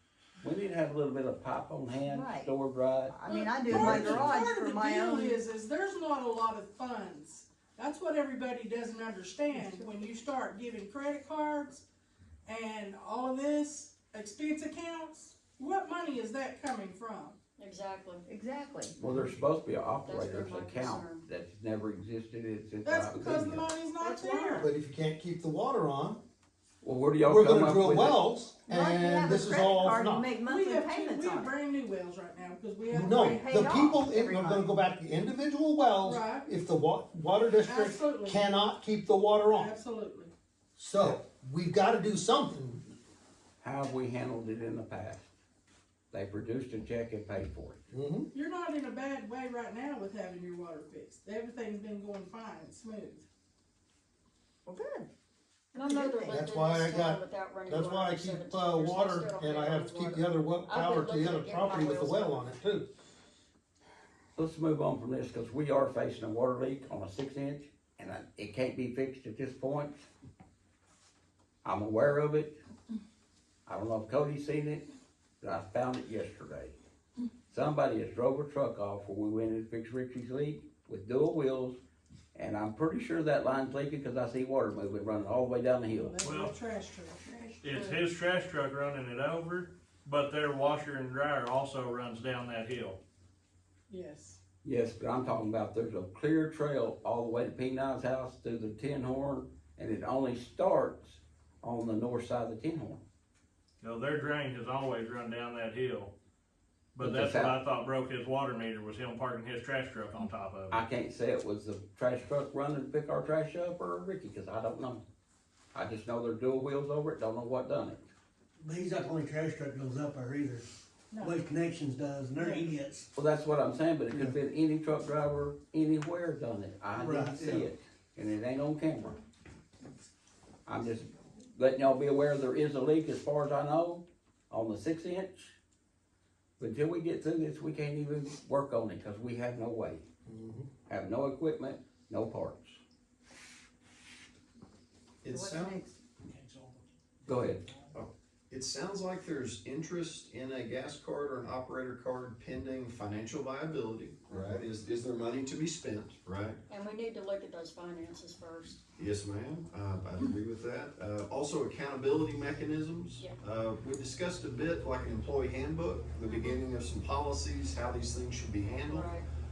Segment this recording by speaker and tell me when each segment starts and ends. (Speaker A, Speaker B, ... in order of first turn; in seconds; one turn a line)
Speaker A: 0.4-3.2
Speaker B: 2.0-2.5
Speaker B: 3.1-5.4
Speaker C: 3.3-11.8
Speaker A: 3.7-4.2
Speaker C: 12.5-17.4
Speaker D: 17.6-18.2
Speaker B: 18.3-19.0
Speaker A: 19.0-23.7
Speaker D: 20.1-21.3
Speaker C: 22.9-24.7
Speaker D: 24.0-24.7
Speaker E: 24.6-26.2
Speaker A: 26.8-28.2
Speaker E: 27.2-30.3
Speaker B: 28.7-31.5
Speaker C: 30.4-33.6
Speaker E: 32.9-39.7
Speaker B: 33.3-34.7
Speaker C: 36.0-36.5
Speaker C: 37.6-38.4
Speaker C: 39.5-40.3
Speaker E: 40.8-42.8
Speaker A: 43.6-45.3
Speaker A: 46.1-47.8
Speaker E: 47.9-48.3
Speaker C: 48.3-53.3
Speaker B: 54.7-55.1
Speaker B: 55.7-56.4
Speaker D: 55.7-62.5
Speaker E: 56.2-62.9
Speaker A: 64.3-70.0
Speaker A: 71.6-72.6
Speaker A: 73.7-74.8
Speaker A: 75.4-76.8
Speaker A: 77.5-81.8
Speaker A: 82.3-86.2
Speaker C: 85.9-88.0
Speaker F: 86.2-86.6
Speaker F: 87.6-93.0
Speaker C: 93.9-94.4
Speaker A: 94.6-103.0
Speaker F: 103.8-106.1
Speaker F: 107.0-110.8
Speaker A: 107.0-107.6
Speaker A: 110.7-115.0
Speaker A: 115.7-118.0
Speaker G: 118.6-120.7
Speaker C: 121.1-121.4
Speaker G: 121.4-123.1
Speaker C: 122.4-122.7
Speaker A: 123.2-129.2
Speaker G: 127.0-127.7
Speaker A: 130.7-135.6
Speaker A: 136.6-140.1
Speaker E: 140.3-140.7
Speaker A: 140.9-142.8
Speaker H: 145.2-145.8
Speaker B: 145.3-145.9
Speaker G: 146.3-147.9
Speaker A: 147.3-147.6
Speaker H: 147.9-156.6
Speaker D: 154.3-154.6
Speaker D: 156.7-158.8
Speaker H: 159.0-169.1
Speaker D: 166.3-166.6
Speaker D: 168.9-169.3